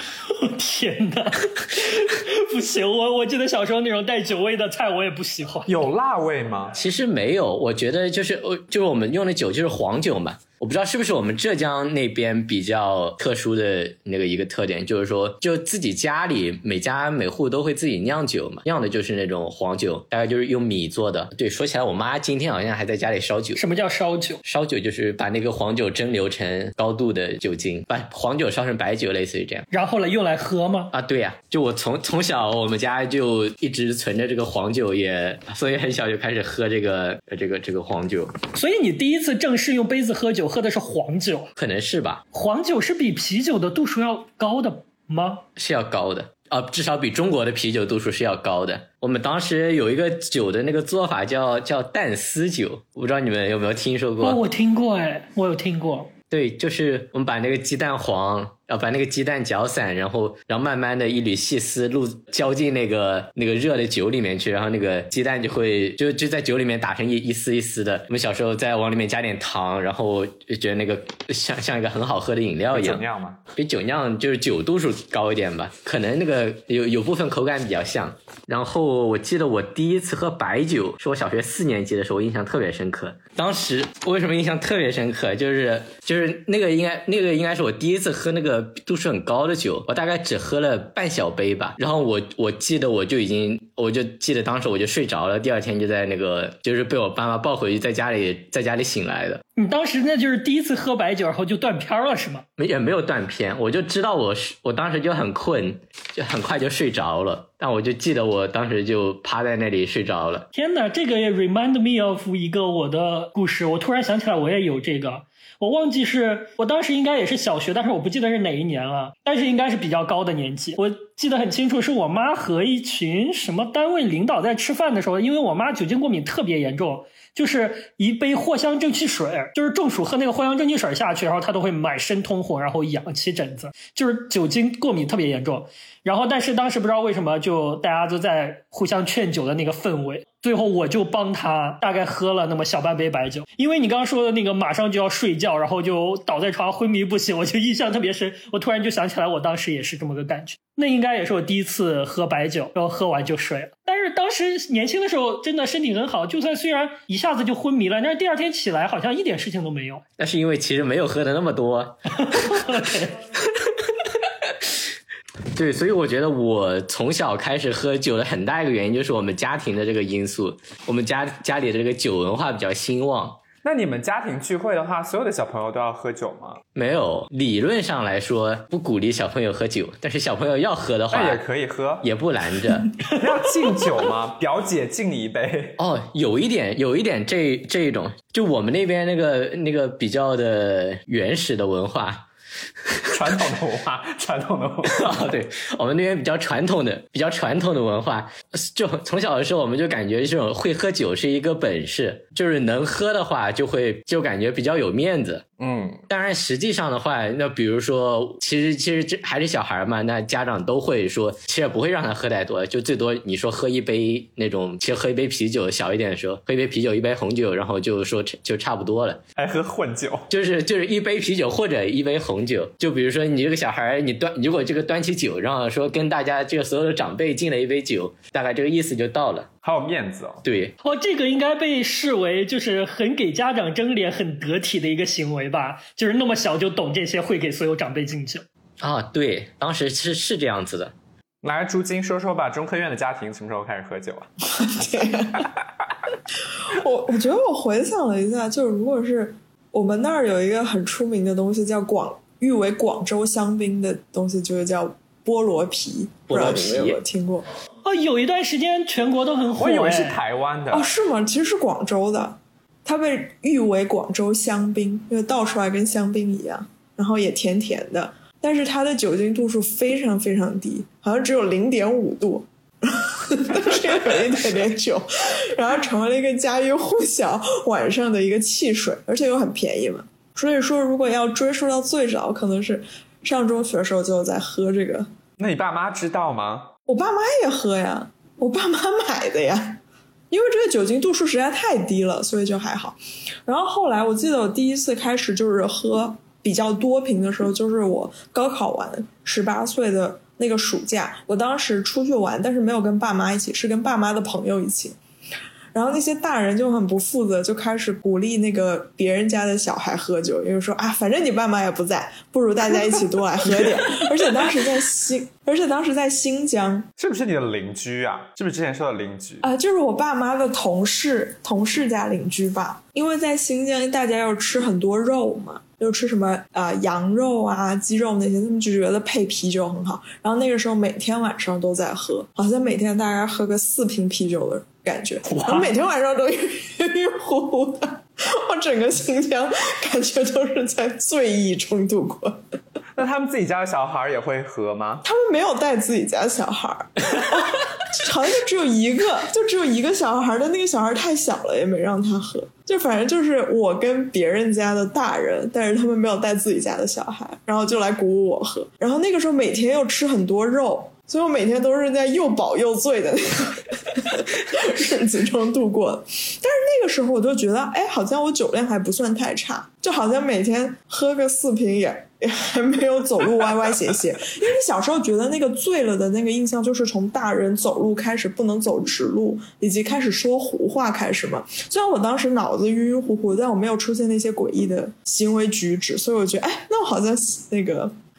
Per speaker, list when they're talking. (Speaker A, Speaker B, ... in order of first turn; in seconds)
Speaker A: 0.3-5.8, 23.6-24.4, 29.7-30.9, 38.5-41.5, 42.3-45.4, 54.2-56.1, 99.6-102.5, 110.5-160.0, 162.2-163.2, 230.8-238.5, 257.9-260.2
Speaker B: 5.7-6.8, 72.7-73.4, 173.6-176.6, 181.1-182.1, 183.0-185.8, 193.1-195.3, 205.6-206.0, 219.4-220.3, 229.6-230.4, 241.4-244.3, 259.6-260.9, 285.4-286.7, 313.6-314.1, 317.0-319.4, 335.3-335.7, 342.9-345.1
Speaker C: 6.8-23.6, 24.4-29.6, 30.9-38.4, 41.6-42.2, 45.6-54.4, 56.3-73.0, 73.5-99.4, 102.6-110.5, 160.2-162.7, 165.5-173.4, 176.8-181.4, 182.0-183.1, 185.8-192.3, 194.9-205.4, 206.1-219.2, 220.3-229.5, 230.4-230.7, 238.8-240.9, 256.3-257.0
Speaker D: 244.5-245.5, 246.5-257.5, 260.7-285.1, 286.9-305.0, 305.7-316.9, 319.4-342.4, 345.0-387.9